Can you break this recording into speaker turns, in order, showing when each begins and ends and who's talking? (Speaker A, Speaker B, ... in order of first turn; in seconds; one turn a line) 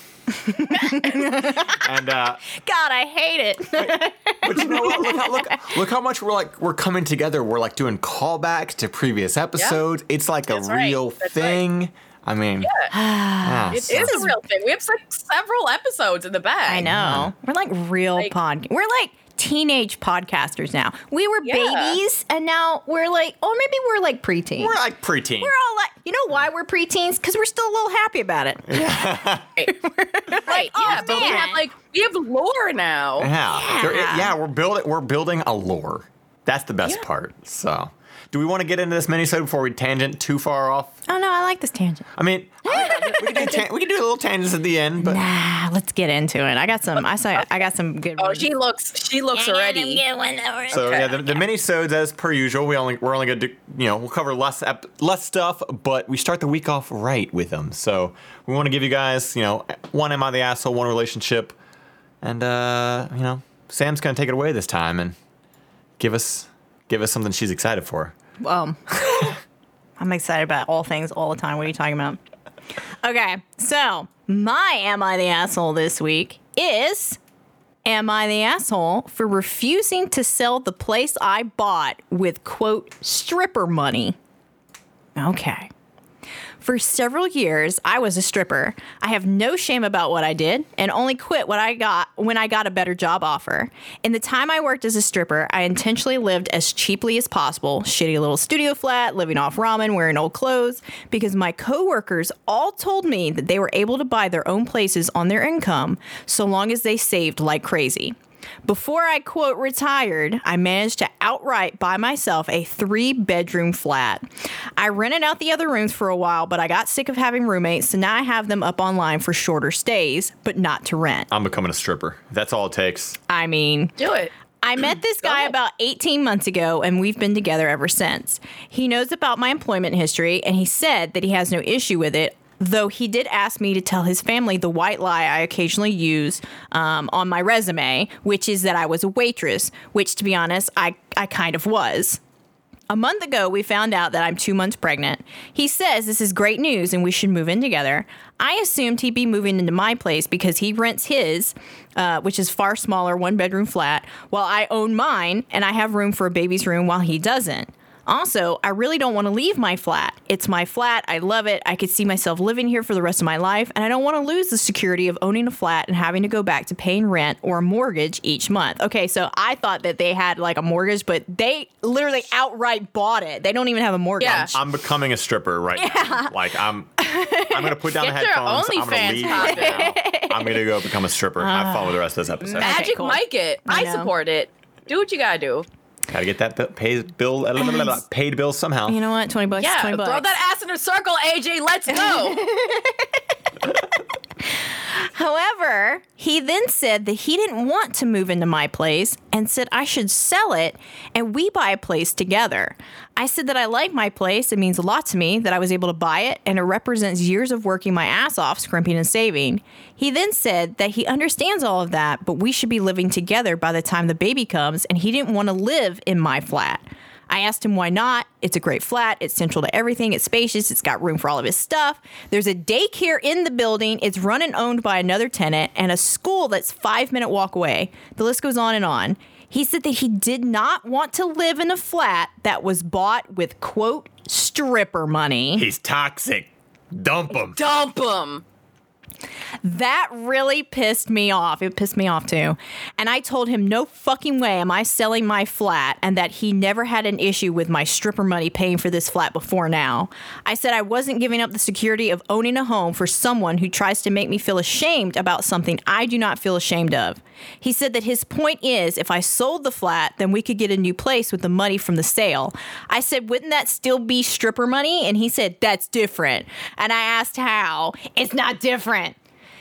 Speaker A: 0.5-1.9
Speaker B: 1.7-2.4
Speaker A: 2.5-5.7
Speaker B: 3.8-12.7
Speaker C: 10.5-11.6
Speaker C: 12.6-12.9
Speaker A: 12.9-14.4
Speaker B: 13.4-14.2
Speaker C: 13.7-16.9
Speaker A: 16.7-24.8
Speaker B: 16.8-17.3
Speaker C: 21.4-22.0
Speaker B: 24.6-25.5
Speaker A: 25.4-28.9
Speaker B: 28.7-29.6
Speaker A: 29.7-31.6
Speaker C: 30.4-33.3
Speaker B: 30.9-31.5
Speaker B: 33.2-41.0
Speaker A: 33.5-34.3
Speaker A: 41.1-42.1
Speaker B: 42.2-45.2
Speaker A: 42.6-43.6
Speaker C: 42.7-43.5
Speaker A: 45.0-48.5
Speaker C: 48.2-50.0
Speaker A: 49.3-51.3
Speaker C: 50.7-51.2
Speaker B: 50.7-61.5
Speaker B: 62.2-65.2
Speaker B: 66.0-68.2
Speaker A: 68.4-69.4
Speaker A: 70.0-72.2
Speaker A: 73.0-77.2
Speaker A: 77.8-84.2
Speaker A: 85.2-85.7
Speaker A: 86.6-114.2
Speaker A: 114.8-121.3
Speaker B: 121.3-123.2
Speaker A: 123.3-124.0
Speaker C: 124.0-124.3
Speaker A: 124.6-142.2
Speaker C: 125.2-125.5
Speaker A: 142.9-174.6
Speaker C: 174.2-174.5
Speaker B: 174.2-176.9
Speaker A: 175.8-176.3
Speaker A: 177.0-177.7
Speaker B: 177.5-182.9
Speaker C: 178.0-179.9
Speaker A: 179.2-180.7
Speaker A: 181.4-184.1
Speaker C: 182.4-185.7
Speaker B: 186.1-189.0
Speaker A: 187.6-188.0
Speaker A: 188.9-190.3
Speaker C: 189.6-192.4
Speaker A: 191.9-193.2
Speaker A: 194.9-235.7
Speaker B: 235.6-237.6
Speaker C: 237.6-238.4
Speaker A: 239.6-269.2